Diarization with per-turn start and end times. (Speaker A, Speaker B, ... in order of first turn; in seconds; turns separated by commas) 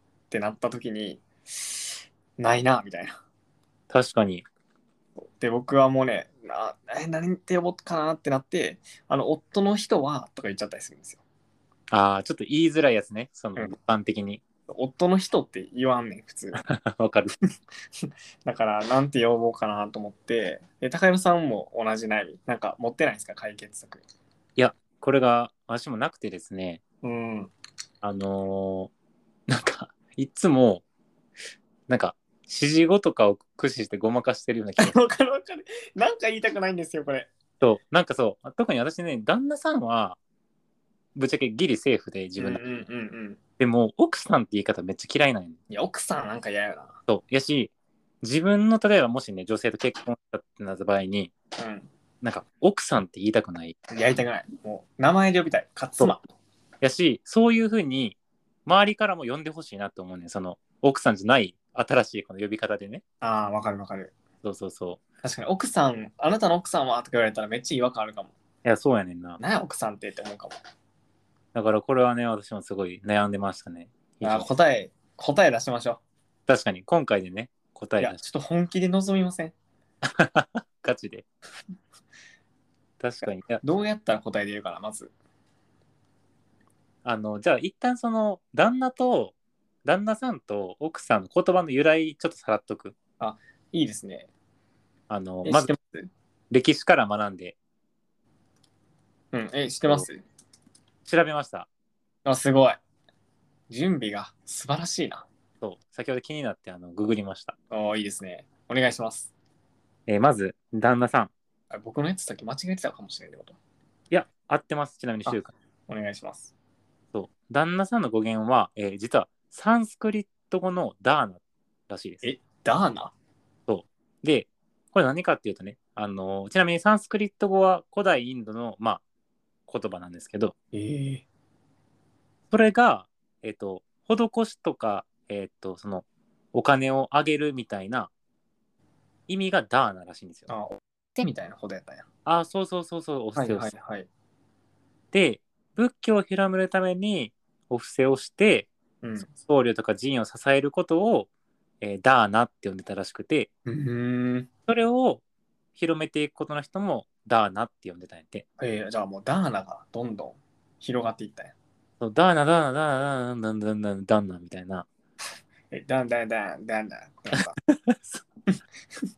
Speaker A: 0.3-3.2, Speaker B: 3.9-4.4, Speaker A: 5.4-11.2, Speaker B: 11.9-14.4, Speaker A: 14.7-16.6, Speaker B: 16.6-17.3, Speaker A: 18.4-24.0, Speaker B: 24.6-26.8, Speaker A: 27.0-27.5, Speaker B: 28.0-28.9, Speaker B: 29.5-30.8, Speaker B: 31.9-35.0, Speaker A: 34.8-37.3, Speaker B: 37.6-40.2, Speaker B: 41.1-42.6, Speaker A: 42.4-43.4, Speaker B: 43.6-45.6, Speaker A: 45.7-47.0, Speaker B: 47.1-51.3, Speaker A: 51.6-51.9, Speaker B: 52.2-53.8, Speaker A: 53.9-56.2, Speaker B: 56.8-63.0, Speaker A: 63.2-64.1, Speaker B: 64.4-65.0, Speaker A: 65.2-68.3, Speaker B: 68.7-69.4, Speaker A: 69.4-70.5, Speaker B: 71.5-74.5, Speaker A: 74.2-76.0, Speaker B: 76.5-78.2, Speaker A: 78.0-79.5, Speaker B: 80.0-81.3, Speaker B: 83.0-83.6, Speaker A: 83.6-85.1, Speaker B: 87.0-89.3, Speaker B: 89.8-93.0, Speaker A: 93.2-94.3, Speaker B: 95.1-95.7, Speaker A: 95.5-96.1, Speaker B: 96.5-97.6, Speaker A: 99.3-100.2, Speaker B: 101.0-101.7, Speaker A: 102.2-102.8, Speaker A: 103.7-105.3, Speaker B: 105.6-107.5, Speaker A: 107.7-109.3, Speaker B: 110.1-111.3, Speaker A: 111.7-113.6, Speaker B: 114.1-115.5, Speaker A: 115.3-116.5, Speaker B: 117.1-122.3, Speaker A: 122.2-123.1, Speaker B: 123.7-129.0, Speaker B: 129.7-130.5, Speaker A: 130.7-131.2, Speaker B: 132.5-138.1, Speaker B: 139.3-140.5, Speaker A: 140.5-142.0, Speaker B: 142.2-143.7, Speaker A: 143.3-144.1, Speaker B: 145.1-148.7, Speaker A: 149.0-149.3, Speaker B: 149.3-151.3, Speaker B: 151.8-153.5, Speaker A: 153.7-154.5, Speaker B: 154.7-155.2, Speaker B: 155.8-158.4, Speaker A: 158.6-161.5, Speaker B: 162.0-164.9, Speaker A: 165.7-167.6, Speaker B: 167.3-168.2